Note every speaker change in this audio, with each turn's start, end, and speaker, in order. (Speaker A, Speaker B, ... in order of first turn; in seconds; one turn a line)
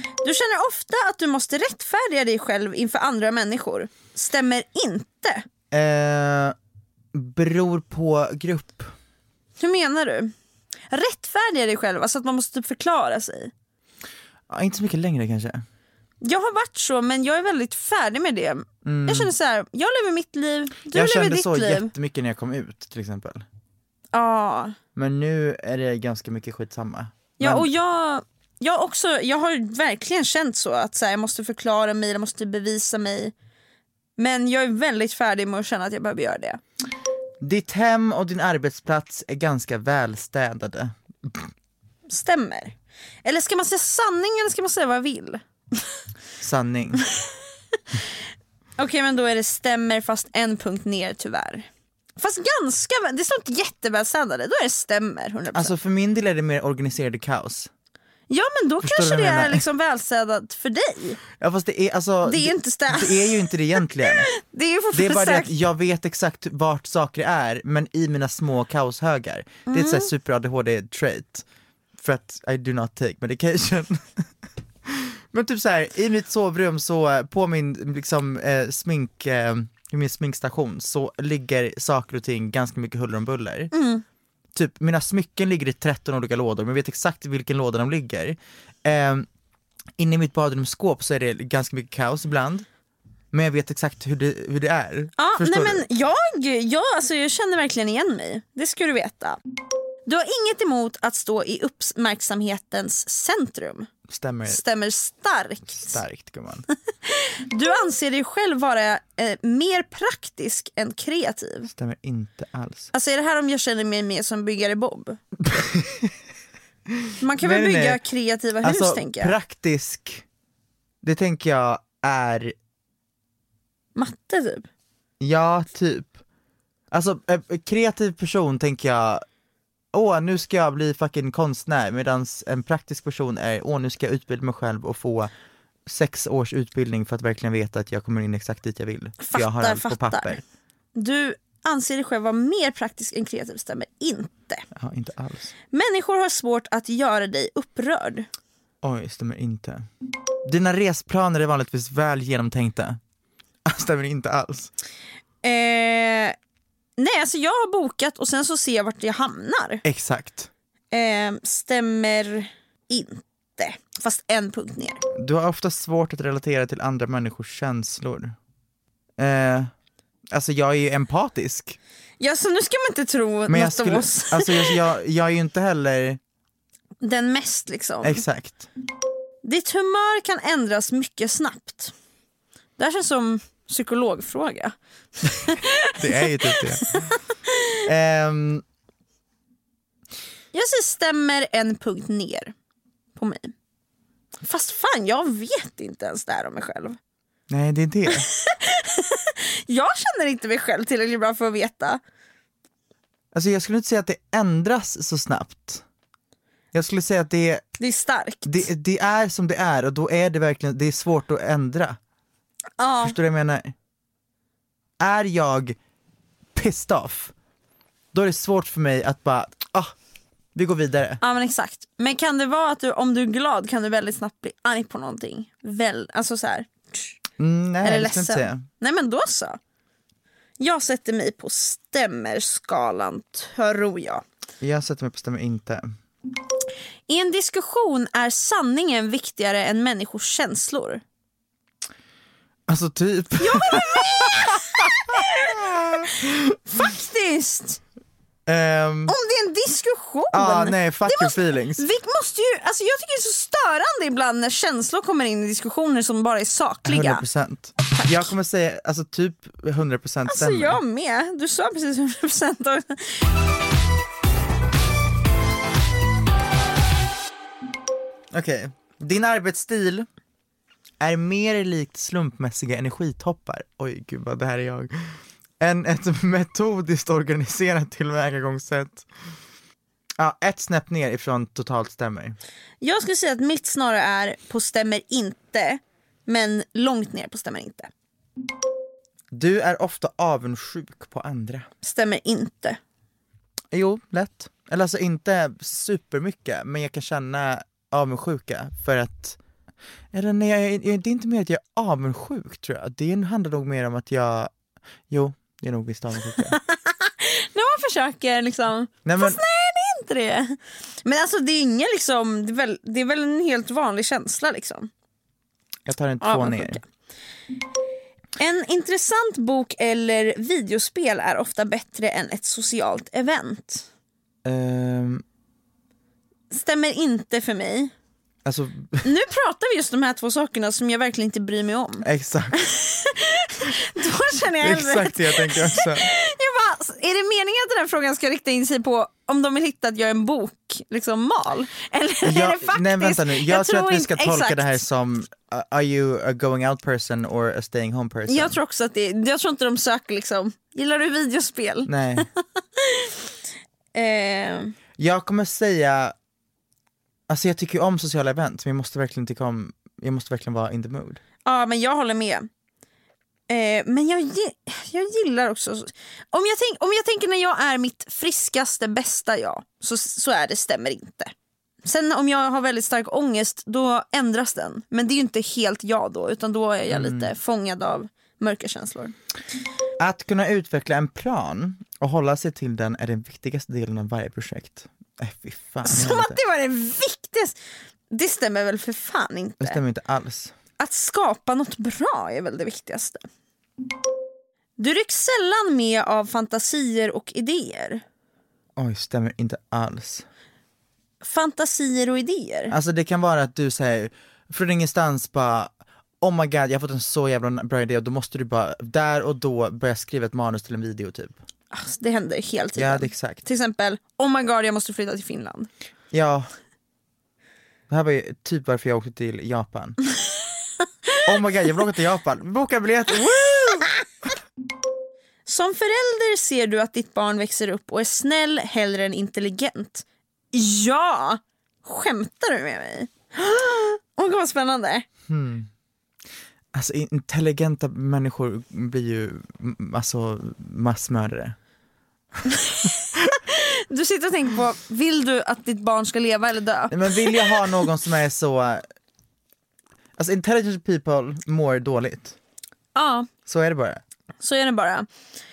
Speaker A: 0.2-5.5
Speaker B: 5.7-6.5
Speaker B: 7.1-8.9
Speaker A: 9.6-10.3
Speaker A: 10.9-13.5
Speaker B: 14.5-15.6
Speaker A: 16.2-21.9
Speaker B: 18.8-19.3
Speaker B: 20.9-23.4
Speaker A: 24.1-24.8
Speaker B: 24.9-27.7
Speaker A: 27.4-33.3
Speaker A: 34.2-36.6
Speaker B: 37.4-41.5
Speaker A: 42.1-45.9
Speaker B: 46.4-47.0
Speaker A: 48.8-55.7
Speaker B: 55.5-57.7
Speaker A: 58.3-61.2
Speaker B: 58.8-59.6
Speaker B: 61.4-64.3
Speaker A: 62.2-65.5
Speaker B: 64.9-71.5
Speaker A: 69.7-70.1
Speaker B: 72.0-74.3
Speaker B: 74.9-83.7
Speaker A: 83.7-84.0
Speaker B: 84.5-89.3
Speaker B: 90.0-92.7
Speaker B: 93.3-95.9
Speaker A: 95.2-99.4
Speaker A: 100.1-103.9
Speaker B: 104.1-104.6
Speaker A: 104.5-106.0
Speaker B: 105.8-106.7
Speaker A: 107.0-111.7
Speaker B: 111.7-112.9
Speaker A: 112.9-115.2
Speaker B: 115.4-116.1
Speaker B: 117.0-118.0
Speaker A: 117.2-119.3
Speaker B: 118.6-120.2
Speaker B: 121.0-122.5
Speaker A: 124.0-124.7
Speaker B: 125.2-126.1
Speaker B: 126.9-129.2
Speaker B: 129.9-135.3
Speaker B: 135.9-140.4
Speaker A: 139.2-140.4
Speaker A: 140.9-144.7
Speaker B: 144.7-145.5
Speaker A: 145.7-148.3
Speaker B: 148.8-149.9
Speaker B: 150.4-153.0
Speaker B: 153.7-154.7
Speaker A: 155.4-156.4
Speaker A: 157.0-159.8
Speaker B: 159.8-160.5
Speaker A: 160.9-165.0
Speaker B: 165.1-168.4
Speaker B: 169.2-169.7
Speaker B: 170.3-171.8
Speaker A: 172.2-174.8
Speaker B: 173.5-176.2
Speaker A: 177.0-178.2
Speaker B: 178.0-178.7
Speaker A: 179.4-181.9
Speaker A: 182.8-187.8
Speaker B: 186.0-186.9
Speaker B: 187.8-188.6
Speaker A: 190.5-192.5
Speaker A: 193.2-193.5
Speaker A: 194.4-197.0
Speaker B: 197.5-198.3
Speaker A: 198.1-202.0
Speaker B: 203.3-205.8
Speaker B: 206.7-207.7
Speaker A: 207.8-208.6
Speaker B: 208.5-212.0
Speaker A: 212.8-213.2
Speaker B: 213.0-213.7
Speaker B: 215.0-215.8
Speaker B: 216.6-217.3
Speaker B: 218.1-219.9
Speaker B: 220.6-221.2
Speaker A: 221.2-227.2
Speaker B: 227.4-228.7
Speaker A: 227.8-229.6
Speaker A: 230.6-234.2
Speaker B: 234.6-235.9
Speaker A: 237.1-241.0
Speaker B: 242.7-246.3
Speaker A: 243.4-246.1
Speaker A: 246.7-247.8
Speaker B: 248.5-249.2
Speaker A: 249.1-257.2
Speaker B: 250.3-251.8
Speaker B: 256.9-260.8
Speaker A: 260.3-263.3
Speaker B: 268.3-270.1
Speaker B: 271.0-279.1
Speaker B: 280.2-282.4
Speaker A: 282.8-287.9
Speaker B: 289.3-291.7
Speaker A: 291.8-292.8
Speaker B: 293.7-299.4
Speaker B: 300.1-304.5
Speaker B: 305.1-306.6
Speaker A: 306.5-314.9
Speaker B: 309.1-309.4
Speaker B: 315.9-316.8
Speaker A: 316.2-316.8
Speaker A: 318.4-323.9
Speaker B: 324.4-325.2
Speaker A: 326.5-327.9
Speaker B: 328.4-329.1
Speaker A: 329.0-344.8
Speaker B: 332.0-332.6
Speaker B: 334.6-336.1
Speaker B: 342.2-348.6
Speaker A: 348.3-352.3
Speaker B: 351.9-352.3
Speaker A: 352.8-353.2
Speaker A: 353.9-354.8
Speaker B: 355.0-356.1
Speaker B: 357.3-361.2
Speaker A: 361.4-362.5
Speaker A: 363.5-371.3
Speaker A: 371.8-379.1
Speaker B: 376.9-377.3
Speaker B: 380.0-386.4
Speaker A: 385.9-387.6
Speaker A: 388.1-389.8
Speaker B: 389.6-390.5
Speaker A: 390.8-393.2
Speaker A: 394.8-398.0
Speaker B: 398.8-400.2
Speaker A: 401.2-402.7
Speaker B: 402.7-411.4
Speaker A: 411.7-415.7
Speaker B: 412.8-413.4
Speaker B: 416.1-416.5
Speaker B: 417.9-420.0
Speaker B: 421.3-423.9
Speaker A: 425.5-435.1
Speaker B: 435.3-435.7
Speaker B: 436.7-441.6
Speaker A: 442.5-447.7
Speaker B: 446.9-448.8
Speaker B: 450.2-452.4
Speaker A: 452.9-453.3
Speaker B: 453.5-454.0
Speaker A: 454.4-455.1